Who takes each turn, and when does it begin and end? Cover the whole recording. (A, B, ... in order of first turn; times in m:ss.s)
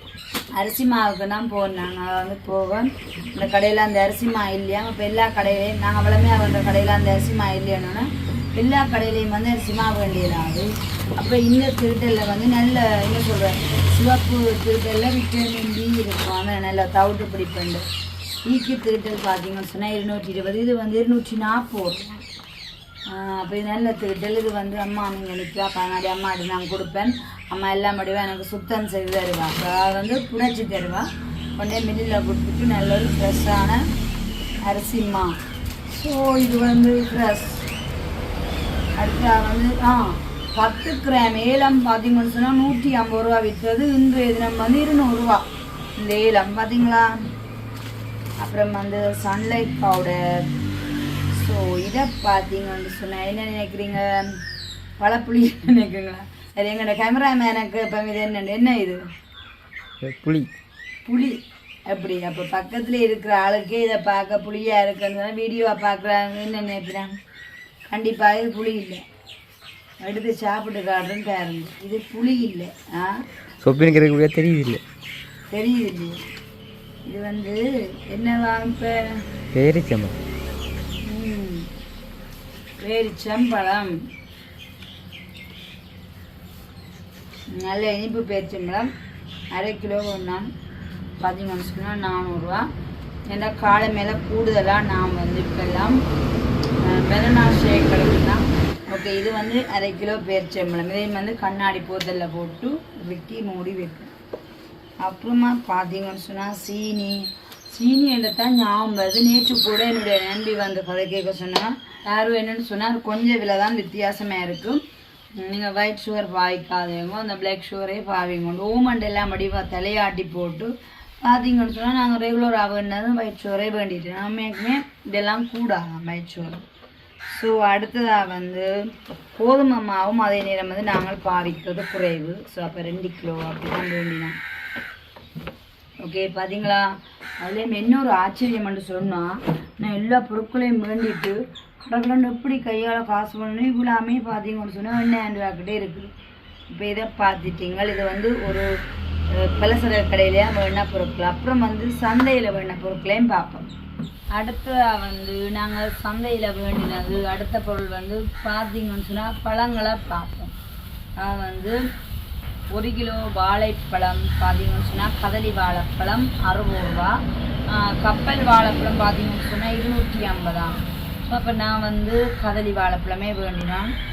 0:00.6-0:17.8 A
0:18.5-0:22.2 A
0:23.1-0:33.8 A
0:34.6-0:35.3 A
0:35.9-0:37.7 A
0:39.0-0:45.4 A
0:46.0-0:47.2 A
0:48.4-0:50.4 A
0:51.3-0:54.4 A
0:55.0-0:59.0 A
1:00.0-1:00.5 B
1:01.0-1:07.1 A
1:07.9-1:09.0 A
1:10.0-1:13.2 A
1:13.6-1:14.8 B
1:15.5-1:16.2 A
1:17.0-1:19.2 A
1:19.5-1:20.2 B
1:21.0-1:21.7 A
1:22.8-1:24.0 A
1:27.5-1:28.9 A
1:29.5-1:30.5 A
1:31.2-1:32.7 A
1:33.3-1:36.0 A
1:36.8-1:44.1 A
1:45.0-1:54.8 A
1:55.4-2:00.7 A
2:01.2-2:06.6 A
2:07.3-2:14.4 A
2:16.0-2:26.1 A
2:26.7-2:28.7 A
2:29.3-2:33.7 A
2:34.3-2:40.5 A
2:41.2-2:41.8 A
2:42.7-2:53.9 A